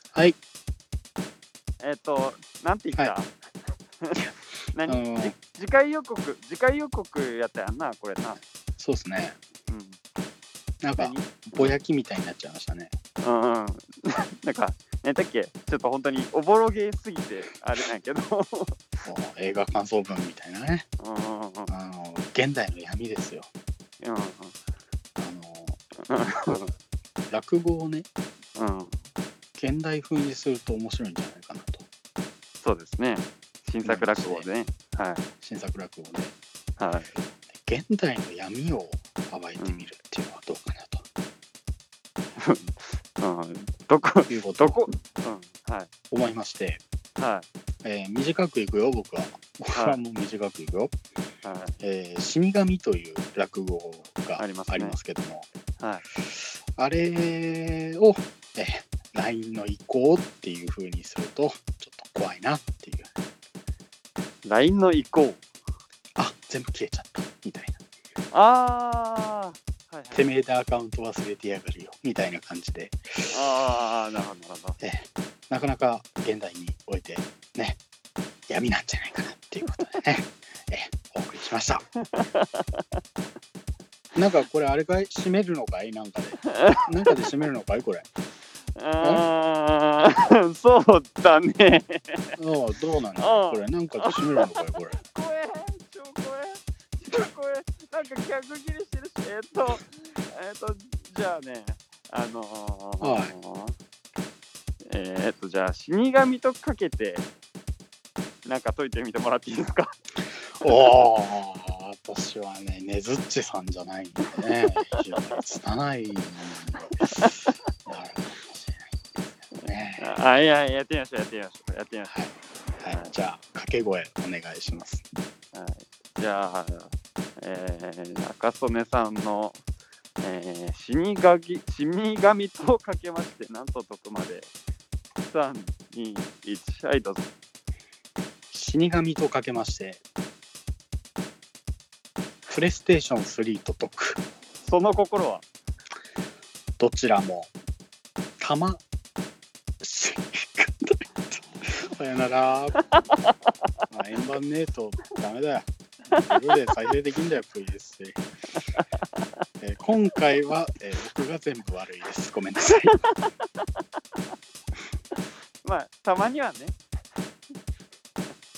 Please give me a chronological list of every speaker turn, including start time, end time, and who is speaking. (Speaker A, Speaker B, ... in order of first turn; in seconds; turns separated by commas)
Speaker A: 1.8-3.3, Speaker A: 4.7-8.4, Speaker B: 4.8-5.3, Speaker B: 8.8-9.3, Speaker A: 9.7-10.0, Speaker B: 10.8-12.9, Speaker A: 11.0-11.8, Speaker A: 13.2-19.1, Speaker B: 19.0-20.9, Speaker A: 21.0-21.7, Speaker B: 21.7-23.5, Speaker A: 24.0-24.6, Speaker B: 25.2-25.8, Speaker A: 26.1-26.7, Speaker B: 27.3-28.1, Speaker A: 28.6-29.0, Speaker B: 29.6-31.8, Speaker A: 32.6-35.2, Speaker B: 33.8-34.5, Speaker B: 35.4-36.3, Speaker A: 36.8-37.1, Speaker B: 37.5-41.0, Speaker A: 39.6-39.9, Speaker A: 42.4-45.9, Speaker B: 44.3-44.8, Speaker B: 46.1-46.8, Speaker A: 47.2-47.5, Speaker B: 47.8-50.9, Speaker A: 51.4-51.8, Speaker B: 51.8-55.5, Speaker A: 54.4-55.0, Speaker A: 55.8-56.0, Speaker B: 56.1-63.1, Speaker A: 64.4-65.4, Speaker B: 66.2-67.8, Speaker A: 68.3-70.2, Speaker B: 70.1-73.4, Speaker A: 73.3-74.8, Speaker B: 74.8-77.8, Speaker B: 78.5-81.8, Speaker A: 82.1-83.0, Speaker B: 84.2-88.1, Speaker A: 86.5-87.1, Speaker A: 88.8-92.3, Speaker B: 89.0-89.2, Speaker B: 92.4-95.0, Speaker A: 93.2-103.8, Speaker B: 103.0-103.3, Speaker A: 104.8-107.3, Speaker A: 108.4-109.9, Speaker B: 110.4-116.9, Speaker A: 117.0-117.5, Speaker B: 117.8-119.0, Speaker B: 119.6-120.2, Speaker A: 120.0-122.1, Speaker B: 122.1-125.0, Speaker A: 125.5-129.6, Speaker A: 130.2-134.5, Speaker A: 135.2-137.3, Speaker B: 138.5-140.0, Speaker B: 142.5-144.2, Speaker A: 144.6-145.4, Speaker B: 146.8-147.5, Speaker B: 148.4-148.8, Speaker B: 149.8-152.8, Speaker B: 153.9-155.7, Speaker A: 156.2-156.7, Speaker B: 156.2-158.2, Speaker A: 158.7-159.4, Speaker B: 159.6-163.0, Speaker A: 162.8-163.8, Speaker A: 165.1-166.8